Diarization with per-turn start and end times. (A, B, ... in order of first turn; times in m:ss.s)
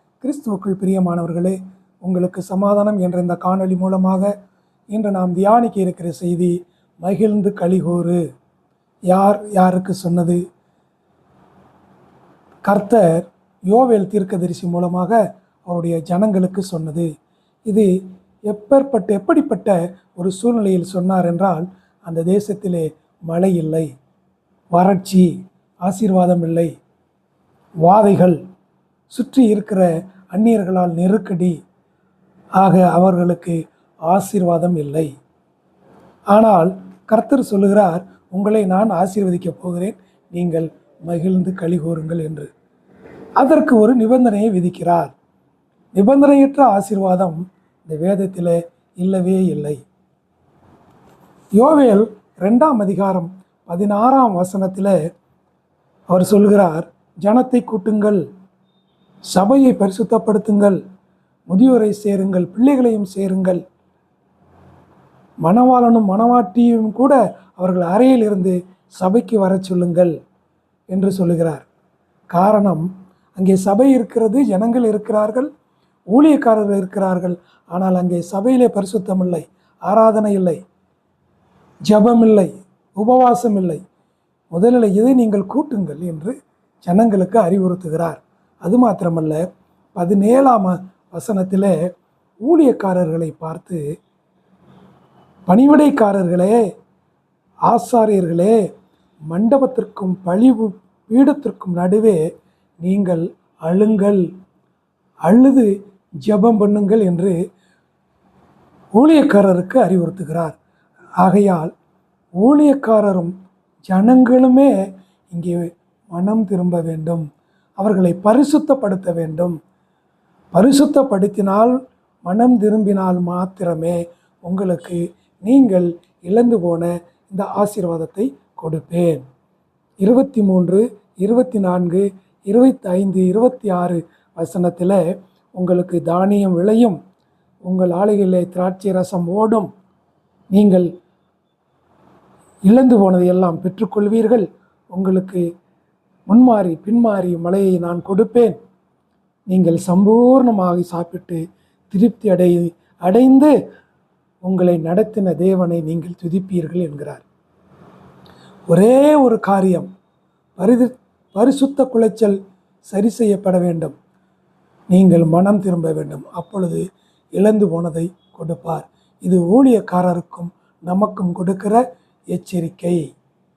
0:00.2-0:04.3 A
0:04.9-0:08.2 A
0:09.1-0:10.4 A
0:12.6-0:17.1 A
0:18.5-0:23.9 A
0:24.7-0:25.3 A
0:25.8-0:26.7 A
0:27.8-0:28.4 A
0:29.1-0:31.6 A
0:32.6-0:35.1 A
0:36.3-0:42.5 A
0:43.4-0:45.1 A
0:46.0-0:49.8 A
0:51.6-0:55.0 A
0:56.1-0:58.2 A
0:59.3-1:00.8 A
1:01.5-1:03.6 A
1:05.4-1:10.1 A
1:10.9-1:11.6 A
1:12.3-1:15.5 A
1:16.1-1:20.6 A
1:21.9-1:23.8 A
1:24.5-1:29.4 A
1:29.9-1:31.8 A
1:32.4-1:33.8 A
1:35.5-1:36.6 A
1:37.7-1:38.6 A
1:39.3-1:42.2 A
1:42.8-1:44.3 A
1:45.2-1:45.7 A
1:46.2-1:47.4 A
1:48.9-1:50.6 A
1:51.2-1:51.7 A
1:52.4-1:53.3 A
1:53.9-1:54.7 A
1:55.3-1:57.2 A
1:57.8-1:59.6 A
2:00.5-2:09.2 A
2:10.0-2:15.0 A
2:15.6-2:17.0 A
2:17.6-2:19.7 A
2:20.5-2:20.9 A
2:22.7-2:25.4 A
2:26.3-2:28.5 A
2:29.5-2:33.5 A
2:34.4-2:37.2 A
2:38.7-2:39.9 A
2:40.6-2:42.4 A
2:42.9-2:43.9 A
2:44.9-2:46.8 A
2:47.4-2:51.8 A
2:52.3-2:53.0 A